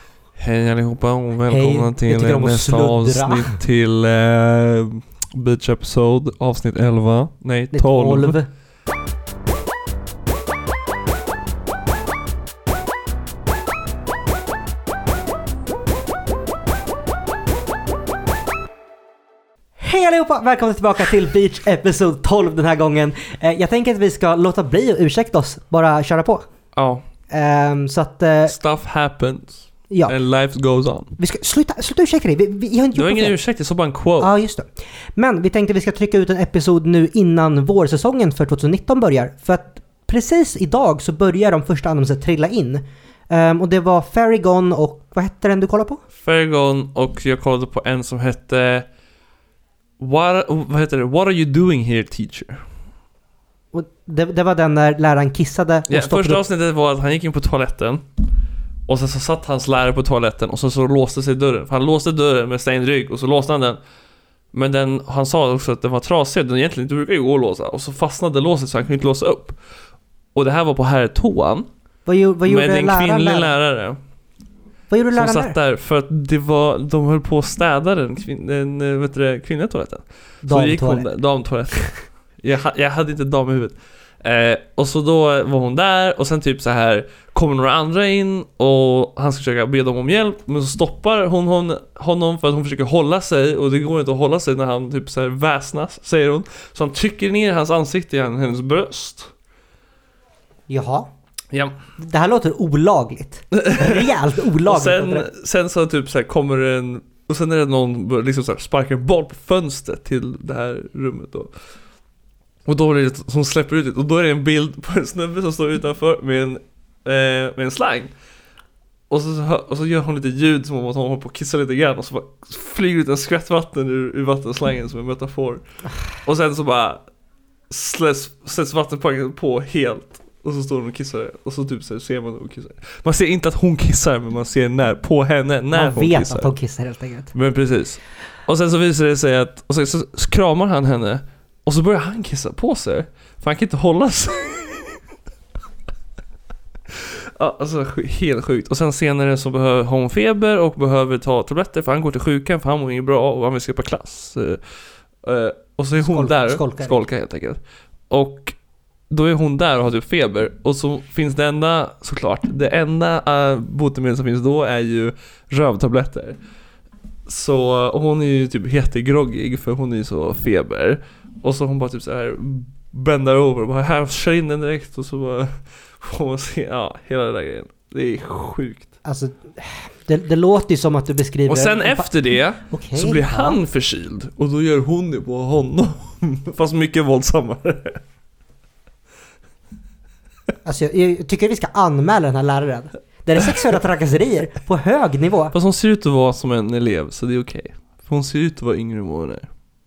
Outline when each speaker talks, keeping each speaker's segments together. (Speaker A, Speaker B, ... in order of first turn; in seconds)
Speaker A: 0.3-8.4, 26.8-27.0, 28.5-31.1, 32.9-34.3, 46.2-48.9, 50.0-52.6, 55.9-58.1, 58.9-63.8, 64.5-69.6, 70.3-71.7, 72.5-74.0, 75.1-99.3, 101.5-101.8, 103.5-111.5, 112.7-118.1, 119.1-125.6, 126.2-127.0, 127.7-136.5, 137.3-145.0, 146.9-154.6, 155.2-158.6, 159.1-166.4, 167.3-178.9, 181.5-188.0, 195.5-199.5
Speaker B: 1.5-3.6, 7.7-8.5, 19.8-26.4, 27.3-28.6, 31.2-33.4, 34.2-46.0, 53.7-56.4, 72.1-73.5, 74.9-75.6, 80.4-81.1, 100.7-101.1, 102.0-105.3, 135.7-137.3, 156.0-157.0, 179.0-182.1, 182.6-183.6, 190.7-195.5